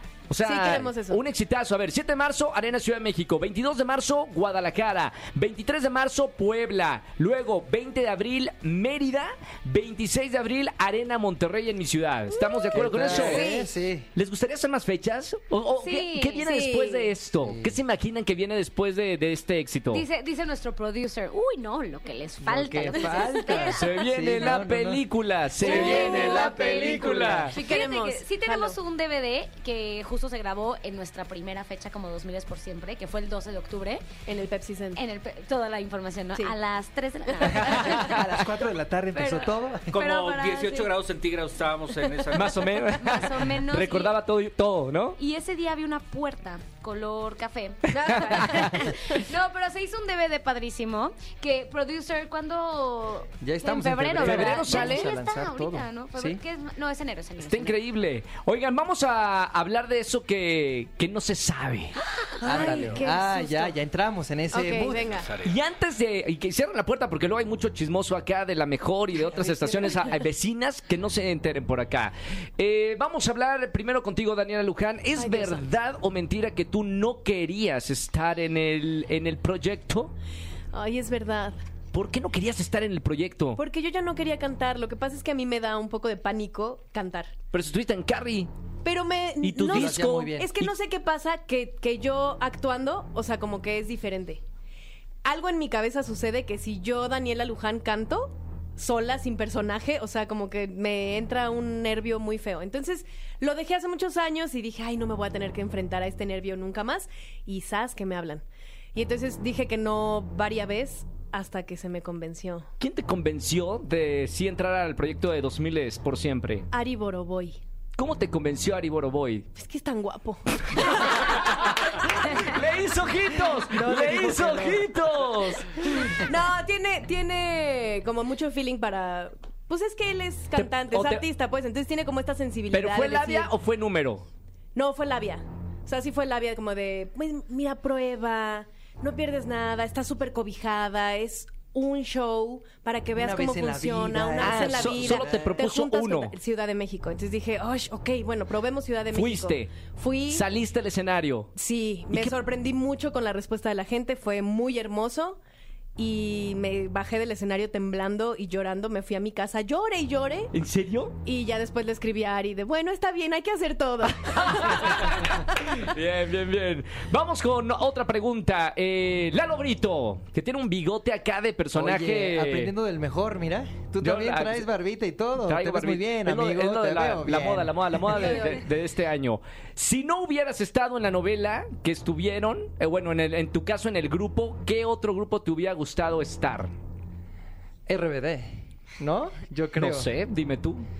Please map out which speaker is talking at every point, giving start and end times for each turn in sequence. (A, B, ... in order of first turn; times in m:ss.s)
0:00.3-0:13.5 A
0:00.4-0:01.2 B
0:12.4-0:13.7 C
0:12.7-0:14.1 D
0:14.1-0:20.0 A
0:15.8-0:17.1 C
0:17.4-0:17.8 D
0:19.9-0:24.6 C
0:22.4-0:25.1 D
0:23.5-0:27.6 A
0:25.6-0:27.5 D
0:25.6-0:34.1 C
0:27.5-0:28.8 B
0:34.3-0:35.0 B
0:35.0-0:38.2 C
0:37.4-0:40.0 D
0:39.1-0:40.9 C
0:39.9-0:42.7 E
0:42.3-0:45.2 A
0:43.0-0:44.2 C
0:45.2-0:57.8 C
0:48.4-0:48.7 A
0:53.4-0:56.4 D
0:54.2-0:55.0 A
0:54.7-0:55.1 B
0:57.4-1:02.0 A
1:02.2-1:02.8 C
1:02.4-1:05.3 D
1:02.5-1:03.8 B
1:04.5-1:05.3 B
1:04.9-1:05.6 E
1:05.4-1:20.1 A
1:15.2-1:15.6 B
1:20.7-1:21.6 B
1:21.9-1:23.6 A
1:23.6-1:27.3 B
1:27.5-1:28.5 A
1:28.8-1:34.4 B
1:29.4-1:30.8 A
1:29.7-1:30.5 D
1:35.2-1:52.7 B
1:52.8-1:56.7 A
1:56.7-1:57.6 B
1:58.0-1:59.5 A
1:59.6-2:01.6 B
2:01.2-2:01.7 A
2:02.3-2:06.0 A
2:03.6-2:05.2 D
2:06.0-2:13.5 B
2:10.6-2:11.2 A
2:12.7-2:14.2 A
2:14.8-2:30.4 B
2:23.2-2:25.6 D
2:24.4-2:26.4 A
2:29.1-2:29.7 A
2:30.3-2:31.5 A
2:31.6-2:35.4 B
2:32.1-2:32.4 A
2:36.0-2:40.5 B
2:40.5-2:41.1 A
2:41.3-2:45.4 B
2:44.4-2:52.7 A
2:51.7-2:58.4 D
2:54.0-2:54.7 A
2:55.4-3:06.7 A
3:07.9-3:10.1 D
3:09.8-3:10.8 A